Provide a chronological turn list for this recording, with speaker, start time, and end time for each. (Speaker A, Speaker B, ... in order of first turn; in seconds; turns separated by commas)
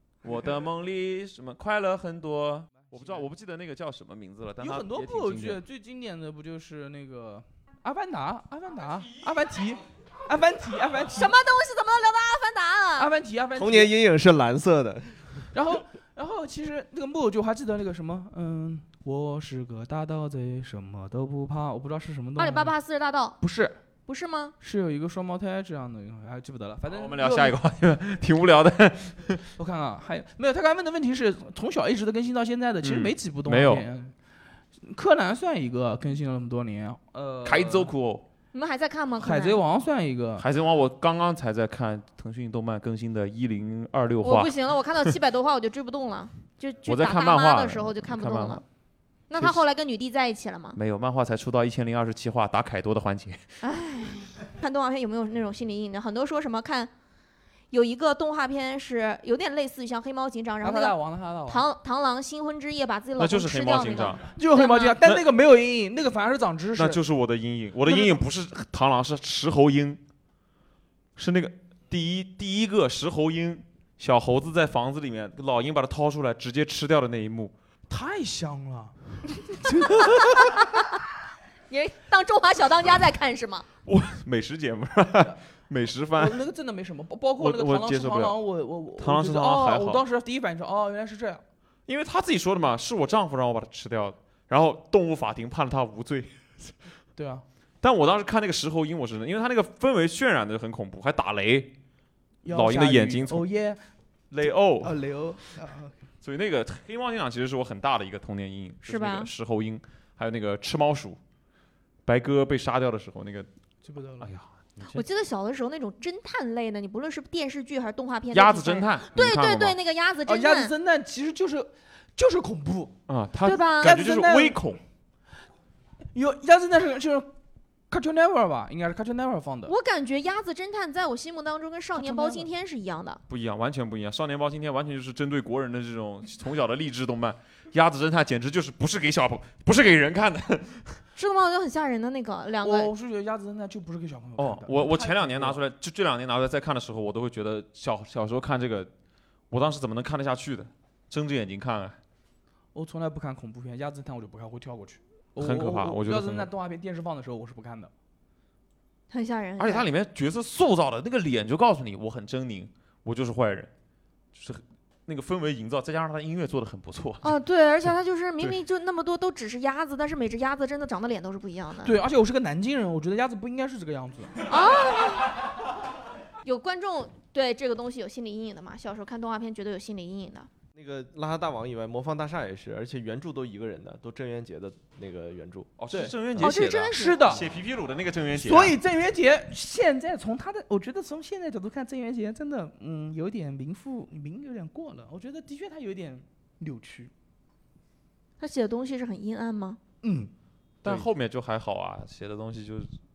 Speaker A: 0.2-5.6, Speaker B: 2.9-3.3, Speaker B: 4.6-11.3, Speaker C: 11.2-13.1, Speaker B: 13.0-13.9, Speaker D: 13.6-15.5, Speaker B: 15.5-22.7, Speaker C: 22.4-23.4, Speaker B: 23.4-23.8, Speaker C: 24.1-24.5, Speaker B: 24.6-27.6, Speaker A: 26.9-29.4, Speaker B: 29.6-34.1, Speaker A: 32.8-33.9, Speaker B: 34.8-37.9, Speaker A: 37.4-38.2, Speaker C: 38.5-39.6, Speaker B: 39.2-40.5, Speaker A: 40.4-44.5, Speaker C: 44.2-48.6, Speaker A: 46.9-48.6, Speaker C: 49.3-50.8, Speaker A: 50.7-53.5, Speaker C: 53.6-56.9, Speaker C: 57.7-61.0, Speaker B: 60.6-61.6, Speaker C: 61.5-64.9, Speaker A: 63.2-64.3, Speaker B: 64.3-67.0, Speaker A: 66.8-70.0, Speaker B: 67.8-68.2, Speaker A: 71.2-77.5, Speaker B: 77.9-79.0, Speaker B: 79.6-79.9, Speaker C: 81.7-83.7, Speaker A: 83.8-86.4, Speaker B: 86.1-91.4, Speaker A: 87.4-88.4, Speaker A: 89.0-90.0, Speaker A: 91.9-96.7, Speaker B: 97.2-97.4, Speaker A: 97.8-101.7, Speaker B: 102.4-103.8, Speaker A: 102.5-103.5, Speaker A: 104.3-105.0, Speaker B: 104.4-105.9, Speaker A: 106.2-111.2, Speaker C: 108.8-109.3, Speaker A: 112.0-113.5, Speaker B: 113.8-114.3, Speaker A: 114.2-115.0, Speaker C: 114.8-120.7, Speaker A: 118.3-119.8, Speaker B: 120.2-123.0, Speaker A: 123.1-124.8, Speaker C: 123.4-124.0, Speaker B: 123.8-124.6, Speaker B: 126.1-127.3, Speaker B: 127.9-129.7, Speaker C: 129.7-133.2, Speaker B: 131.9-132.5, Speaker A: 133.3-141.0, Speaker C: 141.2-142.9, Speaker B: 142.6-145.6, Speaker A: 144.4-148.9, Speaker A: 149.5-152.0, Speaker B: 152.7-157.9, Speaker A: 155.4-156.5, Speaker C: 159.1-159.9, Speaker A: 159.6-163.7, Speaker A: 164.3-167.3, Speaker C: 167.2-171.9, Speaker B: 171.8-174.5, Speaker C: 174.5-175.3, Speaker C: 176.4-180.5, Speaker D: 180.7-185.7, Speaker A: 185.8-188.8, Speaker B: 185.9-187.5, Speaker C: 186.4-187.2, Speaker B: 188.3-197.1, Speaker C: 198.4-199.8, Speaker B: 200.0-200.3, Speaker A: 200.8-202.9